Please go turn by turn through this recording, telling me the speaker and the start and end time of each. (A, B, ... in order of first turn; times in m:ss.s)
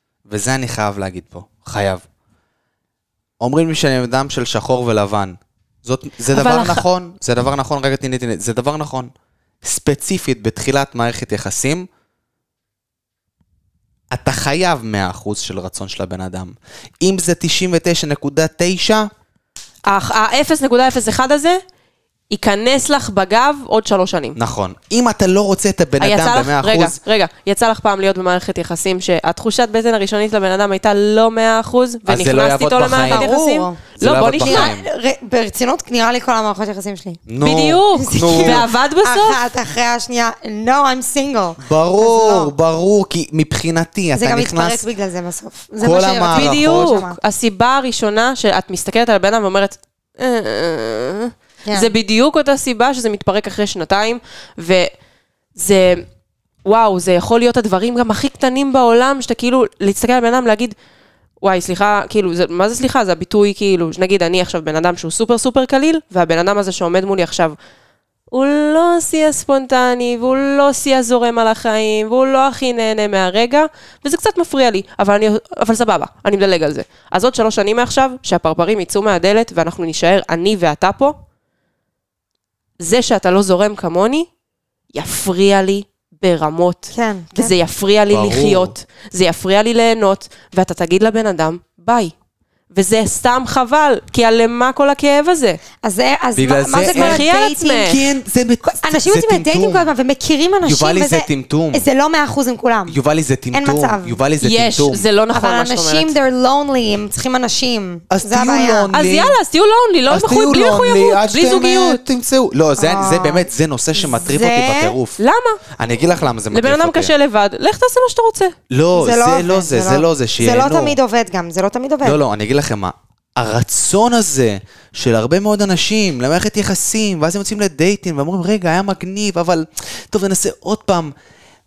0:00.3-0:02.0 A
0:03.4-0:09.1 A
0:06.3-0:06.8 B
0:09.6-0:11.9 A
0:14.1-0:19.1 A
0:19.9-0:21.6 B
0:22.3-0:24.4 B
0:24.4-0:27.0 A
0:26.0-0:34.7 B
0:32.1-0:33.3 A
0:33.0-0:33.9 C
0:34.0-0:34.8 A
0:34.4-0:37.2 C
0:37.3-0:38.7 A
0:37.4-0:39.4 B
0:37.9-0:42.5 C
0:41.6-0:44.8 A
0:44.2-0:47.2 C
0:45.8-0:47.0 A
0:46.3-0:54.9 B
0:51.7-0:51.9 C
0:55.6-0:56.0 B
0:56.6-1:00.8 B
1:01.4-1:07.6 B
1:08.3-1:21.2 B
1:22.8-1:24.3 B
1:24.9-1:32.1 B
1:26.9-1:27.6 C
1:28.1-1:28.7 A
1:32.7-1:35.6 B
1:35.8-1:38.0 C
1:36.4-1:37.3 A
1:36.8-1:38.0 B
1:37.8-1:39.9 A
1:38.6-1:43.0 C
1:40.6-1:41.8 A
1:42.9-1:45.1 A
1:43.5-1:44.2 C
1:44.4-1:46.1 B
1:45.3-1:48.9 C
1:48.1-1:49.4 A
1:48.9-1:52.0 B
1:50.1-1:55.2 A
1:52.8-1:55.0 C
1:55.2-1:55.6 B
1:55.8-1:57.1 A
1:56.5-1:58.6 B
1:58.7-2:01.0 A
1:58.9-2:02.2 C
2:02.0-2:11.1 A